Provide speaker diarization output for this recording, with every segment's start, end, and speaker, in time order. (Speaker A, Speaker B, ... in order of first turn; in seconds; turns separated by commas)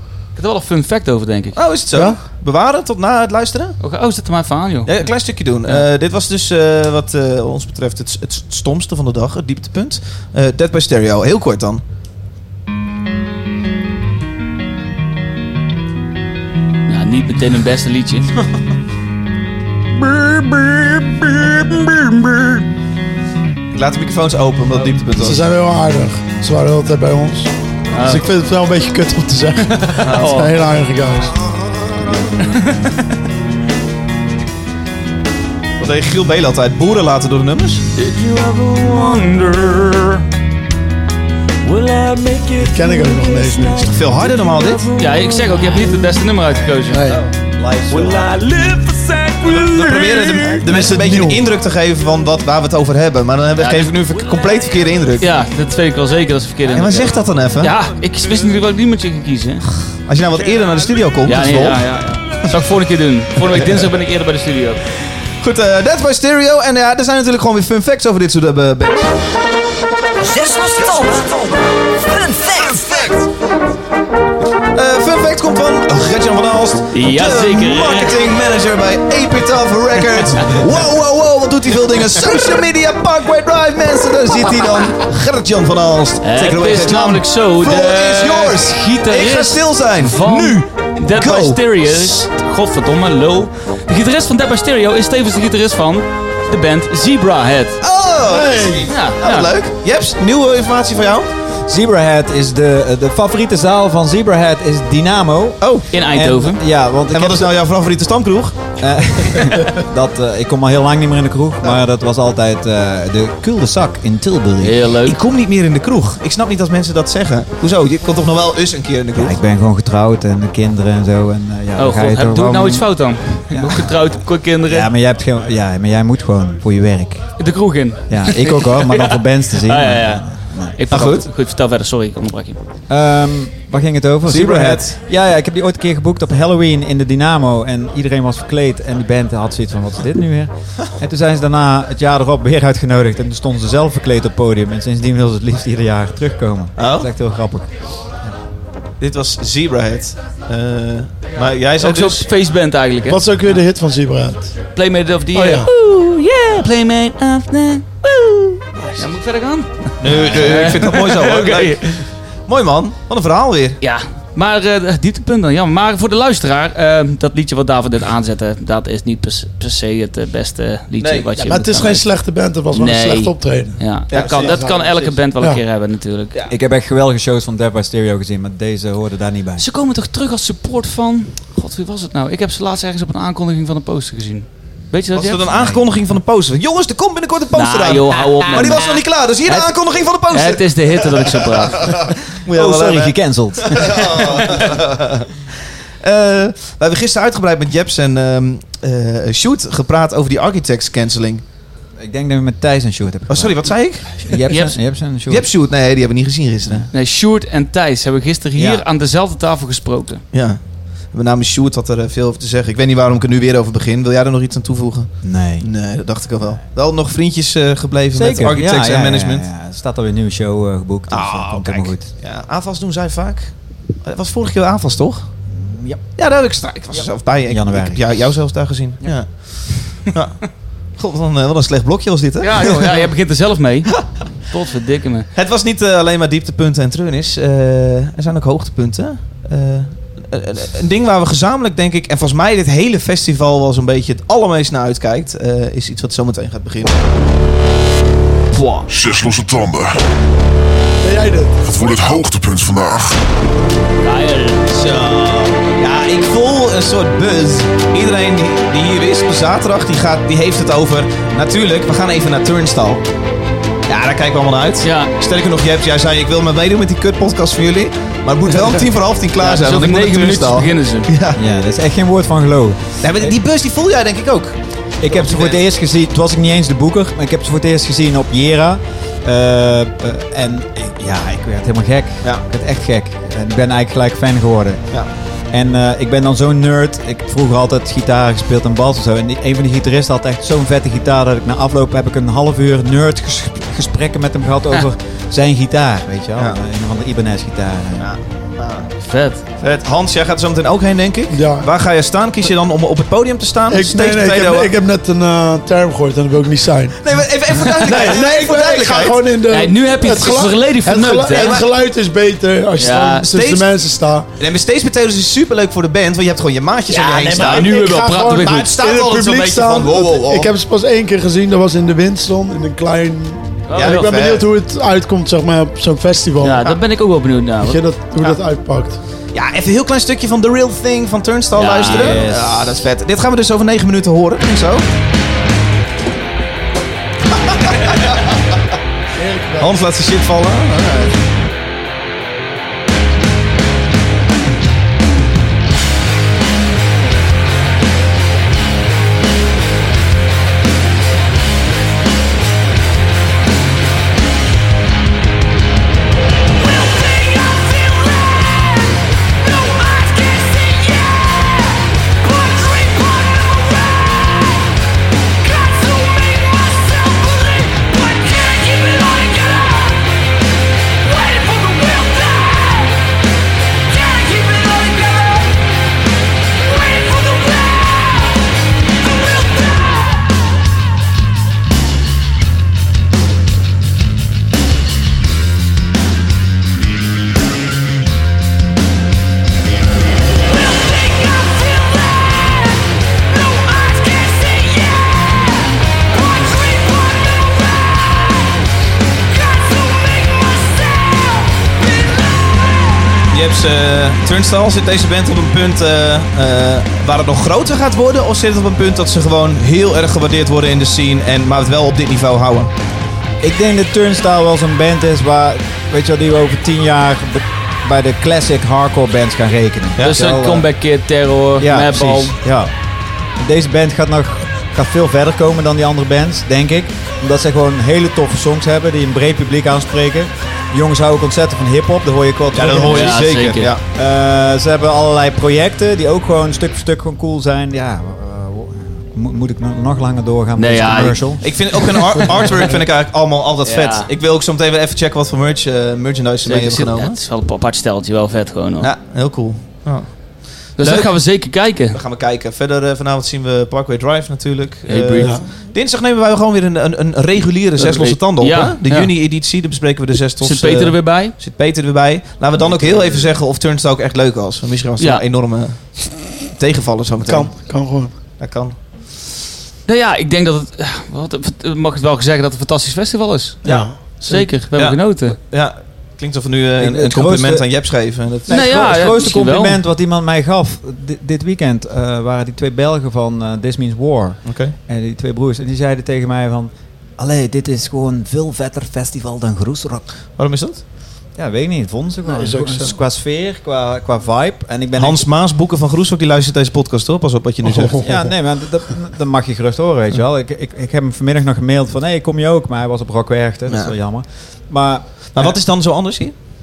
Speaker A: 0.3-1.6, Speaker B: 1.5-3.8, Speaker C: 1.9-2.2, Speaker A: 3.8-5.0, Speaker B: 4.8-11.8, Speaker A: 16.9-18.3, Speaker A: 20.0-22.4, Speaker B: 23.7-25.4, Speaker C: 25.2-31.4, Speaker A: 27.9-28.2, Speaker A: 29.7-30.5, Speaker B: 30.0-30.3, Speaker A: 32.4-33.1, Speaker B: 35.8-37.8, Speaker A: 38.0-40.2, Speaker D: 38.2-39.3, Speaker D: 41.6-45.8, Speaker C: 42.6-43.9, Speaker B: 43.8-44.9, Speaker A: 45.0-47.1, Speaker C: 46.9-47.2, Speaker E: 47.0-48.4, Speaker D: 47.9-50.6, Speaker B: 49.4-55.3, Speaker C: 50.6-51.4, Speaker A: 55.2-59.7, Speaker B: 56.7-57.7, Speaker B: 59.9-62.4, Speaker A: 61.2-64.8, Speaker B: 65.4-69.2, Speaker D: 70.2-73.1, Speaker B: 70.6-71.3, Speaker B: 72.2-73.3, Speaker B: 74.7-92.2, Speaker A: 76.9-78.2, Speaker A: 86.2-97.8, Speaker B: 97.8-101.3, Speaker C: 98.3-98.9, Speaker A: 98.9-99.5, Speaker E: 101.6-107.5, Speaker B: 105.6-105.8, Speaker A: 105.9-106.6, Speaker B: 107.1-108.8, Speaker E: 108.8-114.8, Speaker A: 114.6-115.2, Speaker B: 115.0-119.3, Speaker E: 119.1-122.9, Speaker A: 121.8-124.9, Speaker E: 123.5-124.1, Speaker E: 124.6-127.3, Speaker A: 127.4-132.6, Speaker E: 128.1-130.8, Speaker B: 130.9-131.2, Speaker E: 132.9-148.3, Speaker B: 134.2-135.0, Speaker B: 146.8-147.1, Speaker B: 149.0-152.3, Speaker A: 151.8-153.2, Speaker C: 153.1-154.5, Speaker A: 154.7-162.0, Speaker C: 155.3-155.7, Speaker B: 160.0-163.8, Speaker E: 160.1-160.6, Speaker A: 163.8-172.1, Speaker B: 171.0-171.5, Speaker C: 171.4-174.8, Speaker A: 172.7-176.3, Speaker B: 174.1-175.1, Speaker E: 174.8-175.1, Speaker E: 176.5-179.6, Speaker A: 179.6-185.5, Speaker B: 185.1-195.3, Speaker E: 185.5-185.8, Speaker A: 187.5-192.0, Speaker E: 192.4-194.4, Speaker B: 196.0-201.4, Speaker E: 202.0-205.5, Speaker B: 203.3-204.4, Speaker A: 204.5-204.8, Speaker B: 205.3-206.8, Speaker E: 206.6-206.9, Speaker A: 206.9-210.2, Speaker E: 208.6-208.8, Speaker B: 210.3-219.5, Speaker E: 215.2-215.7, Speaker E: 218.1-222.1, Speaker B: 221.1-225.3, Speaker E: 225.5-226.1, Speaker B: 226.2-232.8, Speaker E: 226.9-228.0, Speaker A: 232.4-235.3, Speaker B: 235.3-247.0, Speaker A: 248.5-248.9, Speaker F: 248.9-249.9, Speaker C: 251.0-252.1, Speaker F: 251.6-253.2, Speaker A: 254.0-254.7, Speaker B: 254.7-263.0, Speaker B: 263.9-271.4, Speaker A: 264.8-265.1, Speaker A: 269.4-271.1, Speaker E: 271.3-273.3, Speaker B: 273.0-275.6, Speaker E: 275.0-285.0, Speaker E: 285.5-298.1, Speaker B: 298.0-298.9, Speaker A: 299.0-299.4, Speaker B: 299.6-304.7, Speaker C: 301.3-301.7, Speaker C: 303.7-307.0, Speaker B: 307.0-309.2, Speaker A: 307.7-308.1, Speaker C: 307.7-314.3, Speaker A: 309.5-311.6, Speaker B: 311.3-311.7, Speaker A: 312.8-313.3, Speaker B: 313.2-313.7, Speaker B: 314.4-320.5, Speaker C: 316.9-326.8, Speaker A: 317.0-318.8, Speaker A: 323.7-324.1, Speaker B: 323.8-324.5, Speaker A: 326.4-327.8, Speaker C: 327.6-329.0, Speaker B: 329.3-334.9, Speaker A: 331.5-332.5, Speaker E: 331.9-332.4, Speaker B: 337.7-338.1, Speaker C: 339.1-339.7, Speaker B: 339.6-341.2, Speaker D: 356.5-364.7, Speaker D: 365.4-370.2, Speaker D: 371.0-373.1, Speaker D: 373.9-375.7, Speaker D: 376.6-378.4, Speaker D: 379.0-380.1, Speaker D: 390.4-398.6, Speaker D: 399.2-403.1, Speaker B: 403.3-412.7, Speaker E: 413.4-420.7, Speaker B: 420.0-420.2, Speaker A: 420.0-422.4, Speaker E: 421.6-422.7, Speaker E: 423.4-442.5, Speaker B: 432.5-433.8, Speaker A: 432.9-433.7, Speaker A: 440.6-441.6, Speaker B: 441.4-447.2, Speaker A: 443.6-444.1, Speaker A: 446.4-448.9, Speaker B: 448.8-467.5, Speaker A: 450.8-452.0, Speaker A: 454.9-455.4, Speaker A: 457.8-459.1, Speaker A: 460.4-461.3, Speaker C: 467.2-468.1, Speaker B: 468.4-468.8, Speaker A: 469.9-475.4, Speaker B: 473.6-478.9, Speaker C: 473.6-474.0, Speaker E: 476.8-477.6, Speaker E: 478.4-490.1, Speaker A: 478.5-479.8, Speaker B: 484.4-484.7, Speaker B: 490.4-490.8, Speaker E: 491.3-495.2, Speaker C: 492.2-492.9, Speaker B: 495.0-498.1, Speaker C: 497.6-498.3, Speaker E: 498.0-505.6, Speaker B: 503.7-503.9, Speaker B: 505.3-506.3